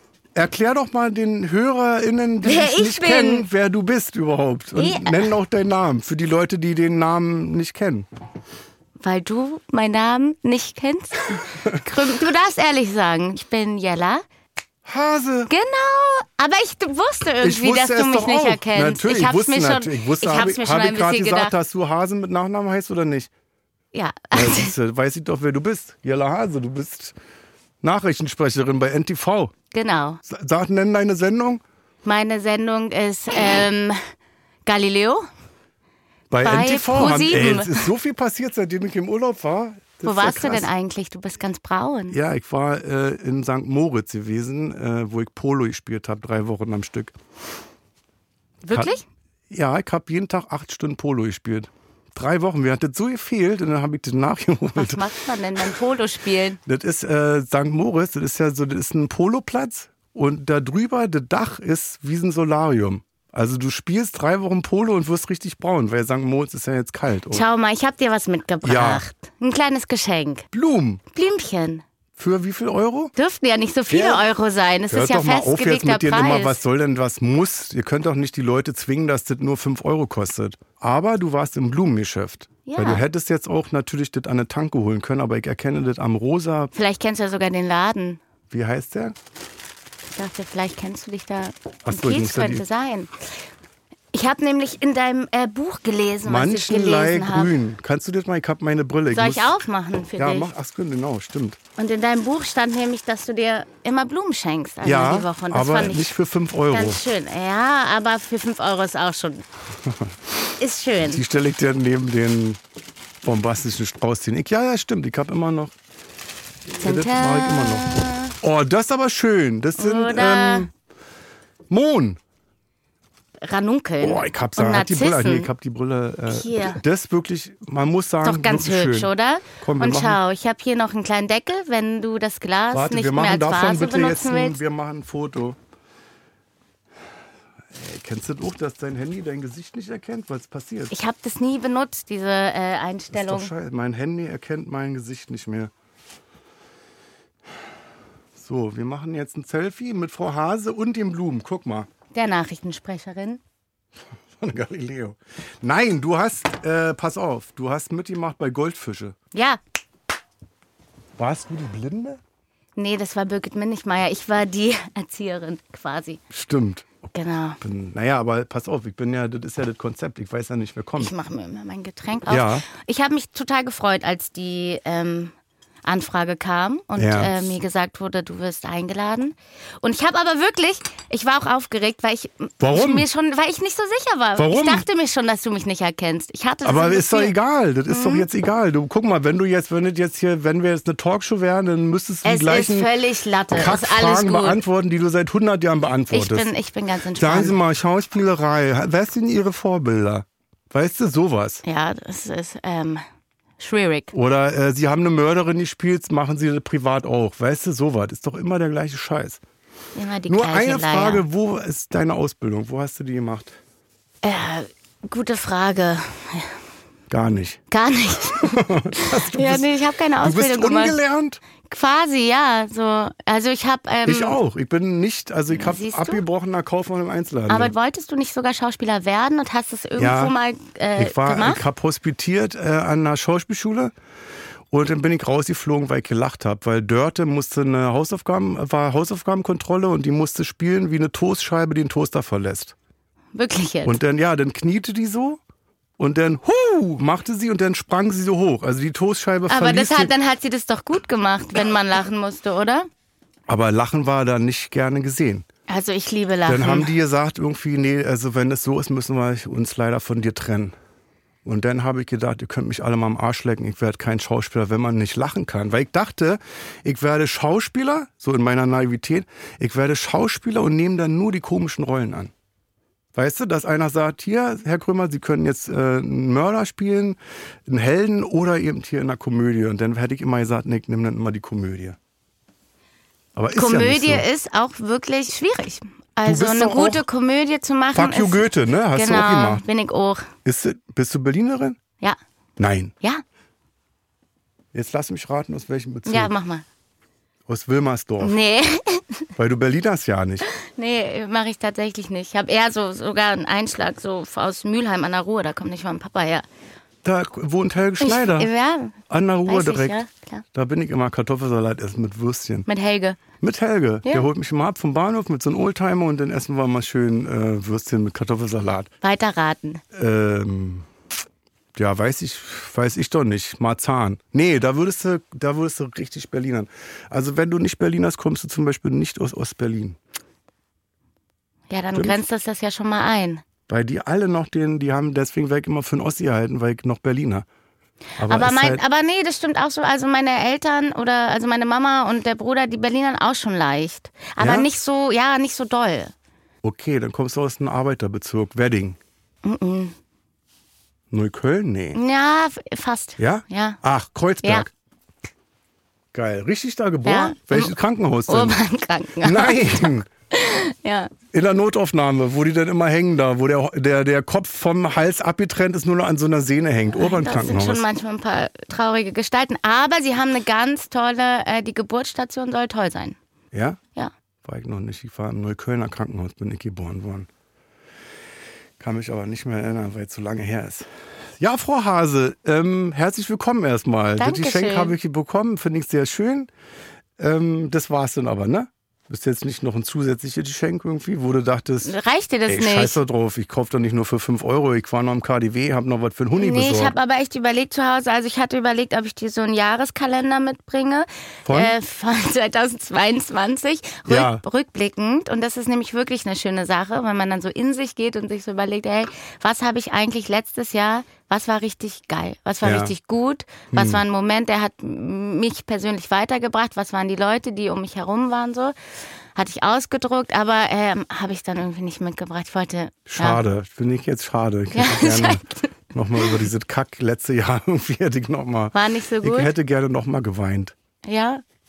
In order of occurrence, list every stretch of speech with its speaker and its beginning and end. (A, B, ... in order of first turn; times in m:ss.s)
0:00.3-0:08.0 A
0:02.4-0:03.5 B
0:04.7-0:05.3 B
0:09.0-0:14.2 B
0:11.3-0:11.8 A
0:14.8-0:15.5 A
0:15.5-0:21.5 B
0:17.4-0:23.3 A
0:23.9-0:24.7 B
0:24.3-0:27.1 A
0:27.8-0:29.5 A
0:29.7-0:30.2 B
0:30.3-0:31.6 A
0:32.0-0:34.0 B
0:34.6-0:35.3 B
0:36.3-0:40.7 A
0:36.4-0:37.9 B
0:40.0-0:42.2 B
0:42.1-0:47.2 A
0:48.6-0:49.0 B
0:49.5-0:55.7 A
0:54.8-0:56.6 B
0:56.6-1:07.4 A
1:07.3-1:10.5 B
1:08.6-1:09.0 A
1:10.5-1:11.0 A
1:11.1-1:11.8 B
1:12.2-1:13.1 A
1:13.2-1:16.6 B
1:13.9-1:14.2 A
1:14.9-1:26.7 A
1:22.6-1:23.0 B
1:26.7-1:28.2 B
1:28.5-1:29.2 A
1:30.1-1:33.1 B
1:31.8-1:32.6 A
1:34.1-1:37.5 B
1:36.2-1:39.5 A
1:39.1-1:40.5 B
1:40.2-1:41.6 A
1:41.8-1:46.1 B
1:44.8-1:47.0 A
1:46.7-1:49.4 B
1:50.6-1:51.2 B
1:51.0-1:52.6 A
1:53.2-1:55.7 A
1:56.7-2:00.7 A
1:56.8-1:58.3 B
1:59.8-2:00.7 B
2:01.7-2:02.2 A
2:03.4-2:05.5 B
2:04.0-2:10.2 A
2:06.3-2:06.8 B
2:08.2-2:14.6 B
2:12.7-2:15.6 A
2:17.7-2:20.9 A
2:20.9-2:23.5 B
2:23.1-2:25.7 A
2:28.4-2:31.9 A
2:32.1-2:33.4 B
2:34.3-2:39.2 A
2:39.3-2:39.6 B
2:41.2-2:42.2 A
2:42.8-2:46.2 B
2:46.3-2:51.1 A
2:47.1-2:47.6 B
2:51.0-2:55.3 B
2:52.3-2:52.6 A
2:55.8-3:07.3 B
2:57.0-2:57.3 A
3:02.6-3:03.1 A
3:04.4-3:04.8 A
3:06.6-3:12.9 A
3:07.9-3:08.3 B
3:12.2-3:14.6 B
3:13.5-3:16.5 A
3:16.1-3:17.6 B
3:17.1-3:21.6 A
3:21.6-3:23.0 B
3:23.6-3:24.1 B
3:24.1-3:29.4 A
3:29.9-3:31.2 B
3:30.3-3:33.6 A
3:34.2-3:36.5 B
3:37.1-3:41.4 A
3:37.7-3:41.0 B
3:41.7-3:44.4 B
3:44.0-3:47.7 A
3:45.5-3:46.2 B
3:47.5-3:51.6 B
3:50.0-3:50.3 A
3:50.9-3:53.9 A
3:54.7-4:02.7 A
4:03.3-4:04.0 B
4:03.8-4:05.4 A
4:06.0-4:10.1 A
4:09.5-4:12.9 B
4:13.5-4:15.4 A
4:15.7-4:16.9 B
4:16.5-4:20.7 A
4:21.4-4:32.3 A
4:33.1-4:42.0 A
4:43.4-4:44.2 A
4:43.5-4:50.3 B
4:46.2-4:47.0 A
4:47.9-4:49.6 A
4:50.4-4:51.8 A
4:52.6-4:52.9 A
4:54.7-4:56.3 A
4:56.0-4:56.6 B
4:57.4-4:58.4 A
4:58.2-4:59.1 B
4:59.4-5:00.4 A
5:00.5-5:06.4 B
5:07.0-5:08.5 A
5:08.0-5:10.4 B
5:09.1-5:10.0 A
5:10.5-5:12.7 A
5:12.6-5:13.2 B
5:13.4-5:18.9 A
5:19.0-5:19.8 B
5:19.9-5:20.8 A
5:21.7-5:30.0 A
5:31.7-5:33.4 B
5:31.9-5:32.2 A
5:33.7-5:37.4 A
5:38.2-5:38.8 A
5:38.2-5:46.1 B
5:44.4-5:44.7 A
5:46.6-5:49.0 A
5:49.4-5:50.0 B
5:51.1-5:52.0 A
5:51.9-5:53.8 B
5:53.2-5:54.7 A
5:54.4-5:54.7 B
5:56.1-5:58.6 A
5:57.0-5:57.7 B
5:58.3-6:01.1 B
5:59.2-6:00.0 A
6:01.3-6:07.8 A
6:06.9-6:13.2 B
6:13.5-6:13.8 A
6:14.4-6:17.3 A
6:18.8-6:20.9 A
6:21.4-6:26.5 A
6:24.2-6:25.0 B
6:27.2-6:31.9 A
6:31.8-6:33.0 B
6:32.5-6:37.0 A
6:36.4-6:58.7 B
6:41.4-6:41.8 A
6:44.0-6:44.4 A
6:52.6-6:52.9 A
6:53.7-6:54.0 A
6:59.3-7:03.4 B
7:03.1-7:10.7 A
7:04.7-7:06.4 B
7:08.7-7:09.5 B
7:11.0-7:11.4 B